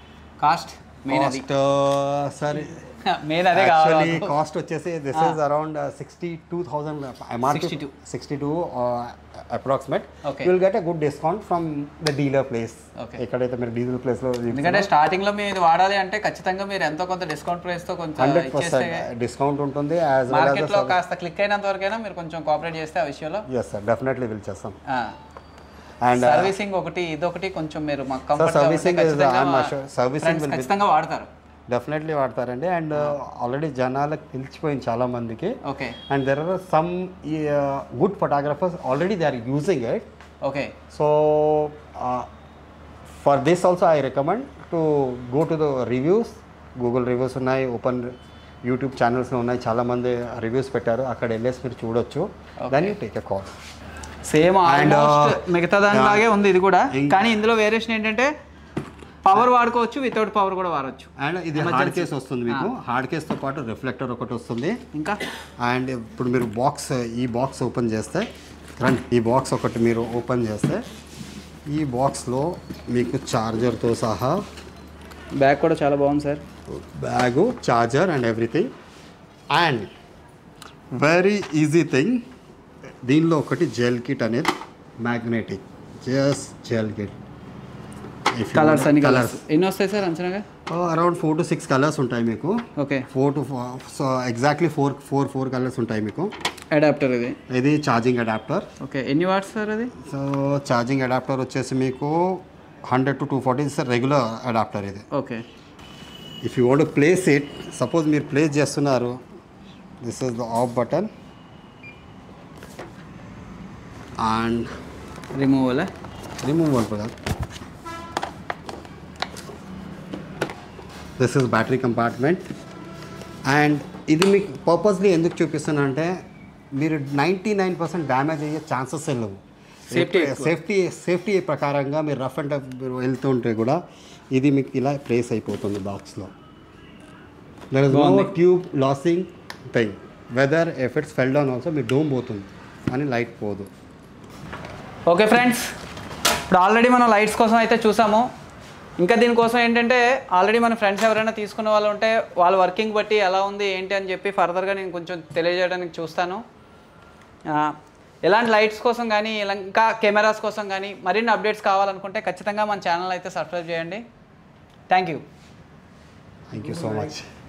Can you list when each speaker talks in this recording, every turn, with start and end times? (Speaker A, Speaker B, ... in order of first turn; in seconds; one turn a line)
Speaker A: 0.4-1.4
Speaker B: 1.1-2.9
Speaker A: 3.0-4.3
Speaker B: 3.5-14.9
Speaker A: 5.1-5.4
Speaker A: 7.5-7.9
Speaker A: 10.2-10.5
Speaker A: 13.0-13.2
Speaker A: 14.5-19.1
Speaker B: 18.2-21.0
Speaker A: 20.3-23.4
Speaker B: 23.5-24.8
Speaker A: 24.9-25.1
Speaker B: 26.0-26.5
Speaker A: 26.1-31.3
Speaker B: 28.4-30.7
Speaker B: 31.7-35.6
Speaker A: 35.6-36.0
Speaker B: 36.1-40.0
Speaker A: 40.4-40.8
Speaker B: 40.9-42.3
Speaker B: 43.2-48.1
Speaker B: 48.6-53.5
Speaker A: 52.6-52.9
Speaker A: 54.2-58.3
Speaker B: 54.6-56.3
Speaker B: 56.9-57.2
Speaker A: 59.2-62.7
Speaker B: 61.2-64.8
Speaker A: 64.9-65.2
Speaker B: 65.6-68.3
Speaker B: 68.8-70.8
Speaker B: 71.7-74.4
Speaker A: 75.4-76.4
Speaker B: 76.7-78.7
Speaker B: 79.5-79.9
Speaker B: 80.9-82.2
Speaker B: 83.0-87.2
Speaker B: 88.3-89.4
Speaker A: 88.5-90.4
Speaker B: 90.7-96.3
Speaker A: 92.8-93.1
Speaker A: 96.7-97.4
Speaker B: 97.5-98.7
Speaker A: 98.8-99.9
Speaker B: 100.0-105.0
Speaker A: 105.1-105.4
Speaker B: 106.4-109.2
Speaker B: 110.0-111.1
Speaker B: 114.2-114.7
Speaker A: 115.3-115.9
Speaker B: 116.4-117.1
Speaker B: 121.2-122.5
Speaker B: 123.5-126.2
Speaker B: 126.7-129.4
Speaker A: 129.9-130.6
Speaker B: 129.9-133.8
Speaker B: 134.3-136.3
Speaker B: 137.7-143.7
Speaker A: 137.9-138.3
Speaker A: 145.1-145.7
Speaker A: 146.5-148.3
Speaker A: 149.0-156.4
Speaker A: 157.5-164.0
Speaker A: 164.9-165.2
Speaker B: 166.5-167.3